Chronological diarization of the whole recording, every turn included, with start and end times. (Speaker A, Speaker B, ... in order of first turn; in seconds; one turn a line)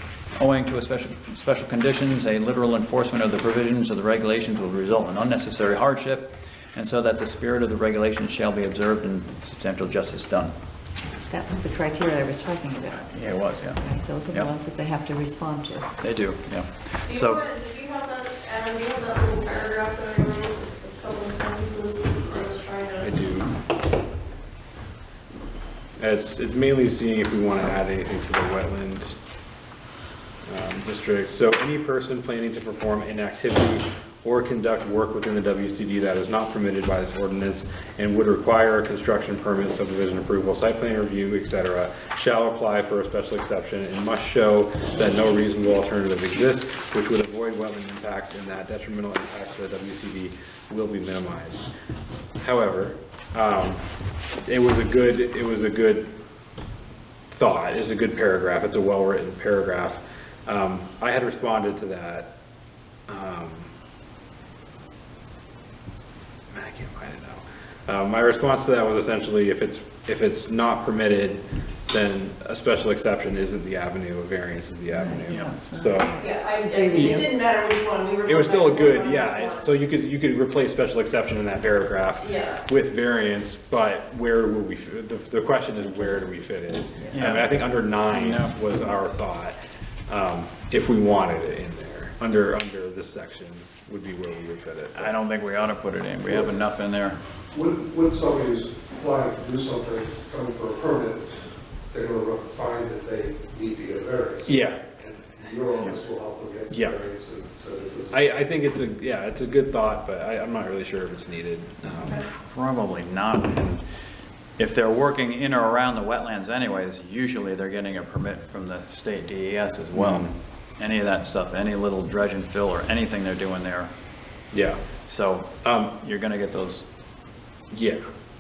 Speaker A: 0.3-10.5
Speaker B: 11.3-15.9
Speaker A: 13.1-14.5
Speaker A: 16.0-17.5
Speaker C: 17.1-23.1
Speaker D: 23.0-23.5
Speaker D: 26.0-29.2
Speaker D: 30.4-51.7
Speaker D: 52.4-53.8
Speaker D: 54.4-56.1
Speaker D: 57.3-62.3
Speaker D: 63.1-63.7
Speaker D: 66.5-76.1
Speaker B: 74.9-77.4
Speaker A: 75.3-75.5
Speaker C: 76.2-79.7
Speaker D: 77.0-77.2
Speaker D: 78.2-89.6
Speaker C: 82.2-82.6
Speaker A: 87.1-88.6
Speaker D: 90.1-95.1
Speaker A: 95.0-97.2
Speaker E: 97.5-101.4
Speaker E: 101.9-108.2
Speaker D: 104.5-104.9
Speaker D: 106.7-107.0
Speaker D: 108.1-112.3
Speaker A: 112.2-113.8
Speaker A: 114.6-123.9
Speaker D: 120.0-120.3
Speaker D: 124.5-124.8
Speaker A: 125.1-126.9
Speaker D: 125.6-125.9
Speaker D: 127.7-128.1